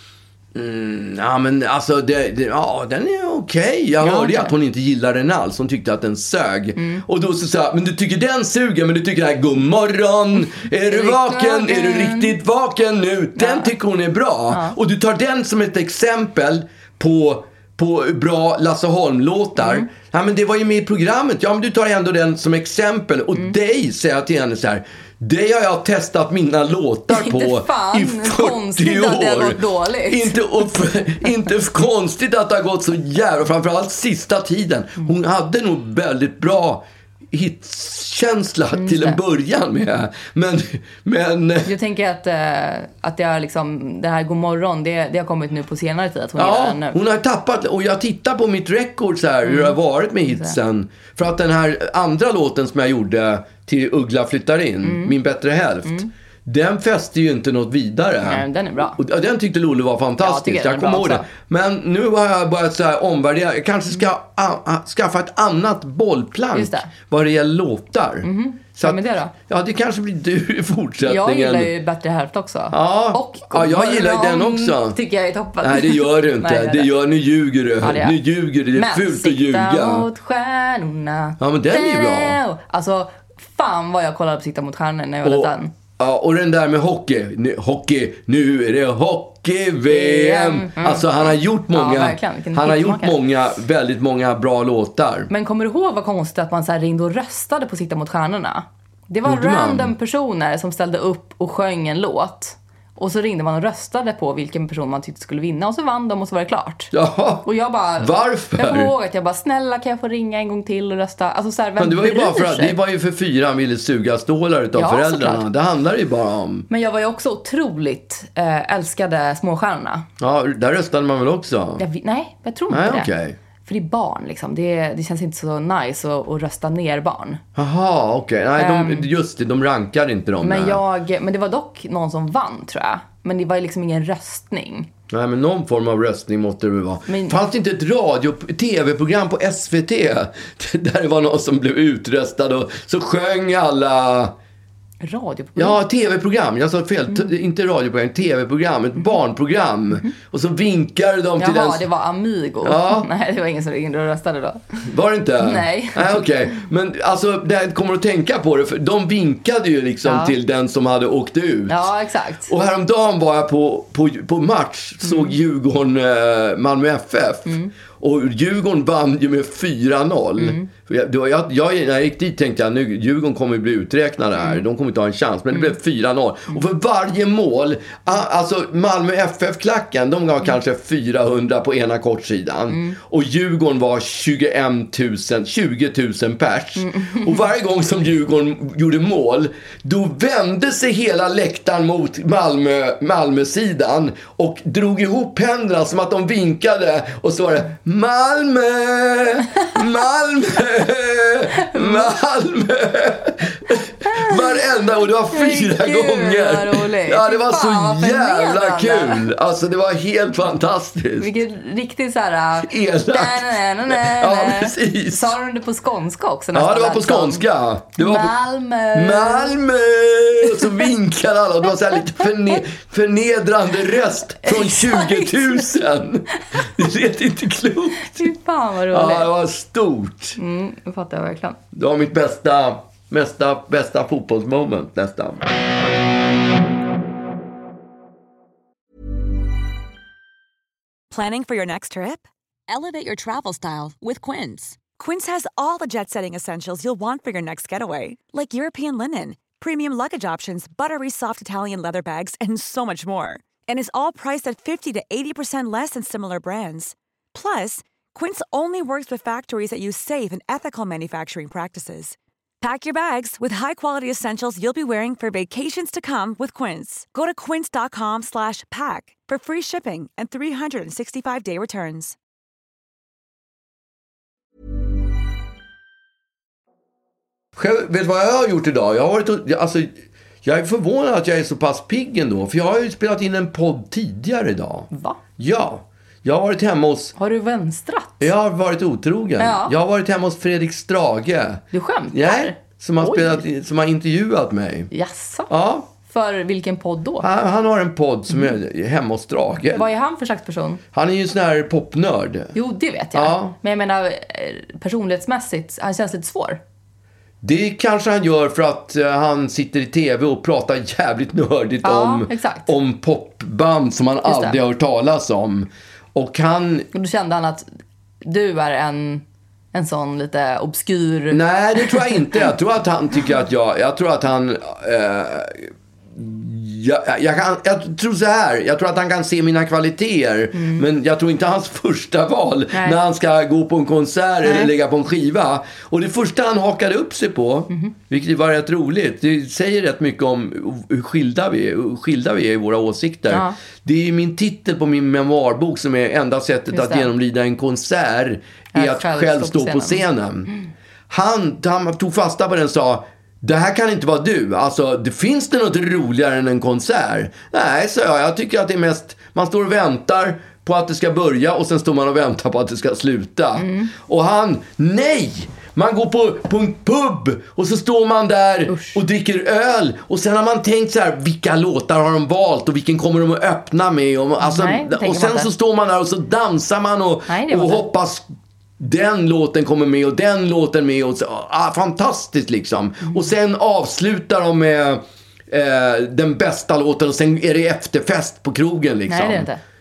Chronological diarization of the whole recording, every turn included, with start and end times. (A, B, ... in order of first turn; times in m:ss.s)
0:00.5-0:41.7 A
0:04.0-0:04.5 B
0:06.8-0:07.0 B
0:10.6-0:12.4 B
0:13.4-0:13.7 B
0:14.5-0:14.7 B
0:19.6-0:19.9 B
0:27.1-0:30.7 B
0:38.7-0:39.2 B
0:41.6-0:47.0 B
0:46.4-1:11.7 A
0:49.4-0:49.8 B
0:50.3-0:50.6 B
0:54.8-0:55.1 B
0:58.2-0:59.0 B
1:00.2-1:01.3 B
1:06.5-1:06.9 B
1:08.2-1:09.3 B
1:11.0-1:16.9 B
1:12.7-1:15.0 A
1:15.6-1:20.1 A
1:17.8-1:18.2 B
1:18.7-1:25.7 B
1:21.4-1:22.4 A
1:25.2-1:35.3 A
1:29.9-1:33.2 B
1:35.3-1:46.9 B
1:39.2-1:39.9 A
1:46.9-1:48.9 A
1:47.4-1:52.8 B
1:51.8-1:56.7 A
1:54.8-1:55.4 B
1:56.7-2:00.0 B
2:00.2-2:01.8 A
2:01.8-2:03.1 B
2:02.7-2:03.4 A
2:03.6-2:07.4 B
2:07.5-2:10.8 A
2:08.6-2:09.1 B
2:10.4-2:14.9 B
2:15.1-2:24.3 A
2:17.1-2:17.4 B
2:25.0-2:25.8 B
2:25.6-2:31.8 A
2:31.4-2:34.9 B
2:32.6-2:33.1 A
2:34.8-2:41.9 A
2:35.4-2:36.3 B
2:40.0-2:40.3 B
2:41.7-2:42.5 B
2:42.5-3:31.4 A
2:45.0-2:45.3 B
2:47.5-2:47.7 B
2:50.4-2:50.7 B
3:02.7-3:03.0 B
3:06.8-3:07.5 B
3:21.7-3:22.1 B
3:24.0-3:24.4 B
3:25.3-3:29.3 B
3:31.2-3:37.4 B
3:32.6-3:35.4 A
3:36.5-3:38.3 A
3:38.0-3:39.6 B
3:38.9-3:48.3 A
3:40.4-3:40.9 B
3:44.4-3:45.7 B
3:48.0-3:49.3 B
3:48.9-3:50.4 A
3:50.4-3:51.6 B
3:51.7-3:55.5 A
4:01.1-4:02.2 C
4:03.0-4:32.1 C
4:37.6-4:39.9 A
4:40.4-4:47.1 A
4:44.9-4:45.2 B
4:47.2-4:48.3 B
4:48.2-4:54.9 A
4:49.4-4:49.7 B
4:51.7-4:53.4 B
4:54.9-4:55.5 B
4:55.5-4:55.9 A
4:56.0-4:57.3 B
4:57.2-4:59.8 A
4:59.7-5:00.8 B
5:00.9-5:02.5 A
5:02.5-5:06.6 B
5:03.1-5:03.5 A
5:07.4-5:16.9 A
5:11.8-5:12.7 B
5:14.2-5:14.6 B
5:16.9-5:17.7 B
5:18.2-5:22.2 B
5:21.3-5:50.5 A
5:30.5-5:30.8 B
5:32.7-5:33.0 B
5:34.4-5:34.7 B
5:43.3-5:43.6 B
5:46.7-5:47.1 B
5:48.7-5:50.0 B
5:51.1-6:18.3 A
6:03.6-6:03.9 B
6:08.7-6:09.0 B
6:14.4-6:15.5 B
6:17.3-6:17.8 B
6:18.8-6:29.5 A
6:29.1-6:29.6 B